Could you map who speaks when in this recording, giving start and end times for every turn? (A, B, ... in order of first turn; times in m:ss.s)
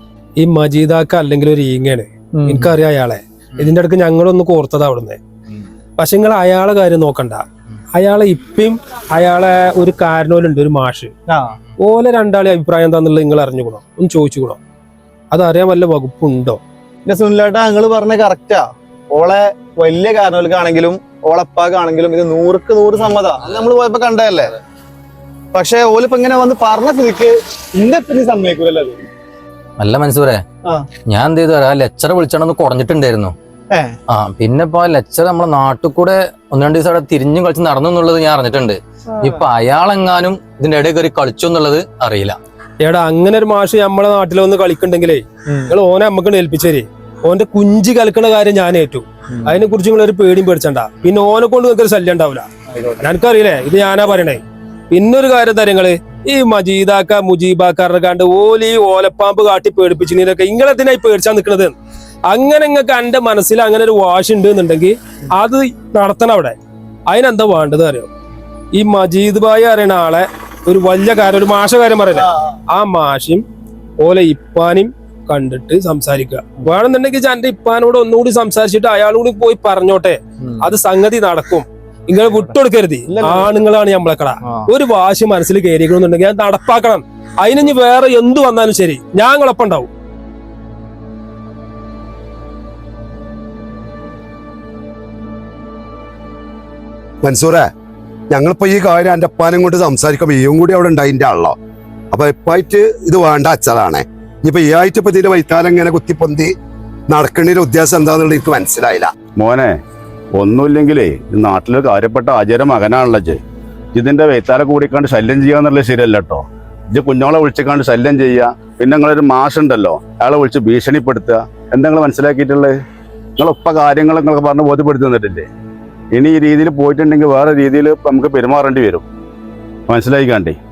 0:00.4-0:05.2 A
0:02.4-0:02.7 B
0:06.0-0:11.1 A
0:11.3-0:11.5 C
0:11.8-0:14.6 A
0:15.3-0:16.6 A
0:17.0-0:24.6 C
0:25.5-0:29.0 C
0:29.8-0:30.4 B
0:31.1-0:33.3 B
0:34.1-0:42.4 B
0:42.8-0:52.5 A
0:53.0-1:01.7 A
1:02.3-1:06.6 A
1:07.1-1:08.1 A
1:08.8-1:13.4 A
1:14.0-1:29.9 A
1:37.2-1:37.7 D
1:38.3-1:41.6 D
1:42.1-1:46.5 D
1:47.1-1:49.1 D
1:49.4-1:49.8 E
1:50.4-1:53.4 E
1:53.9-2:02.8 E
2:03.4-2:05.5 E
2:06.1-2:09.0 E
2:09.9-2:10.6 E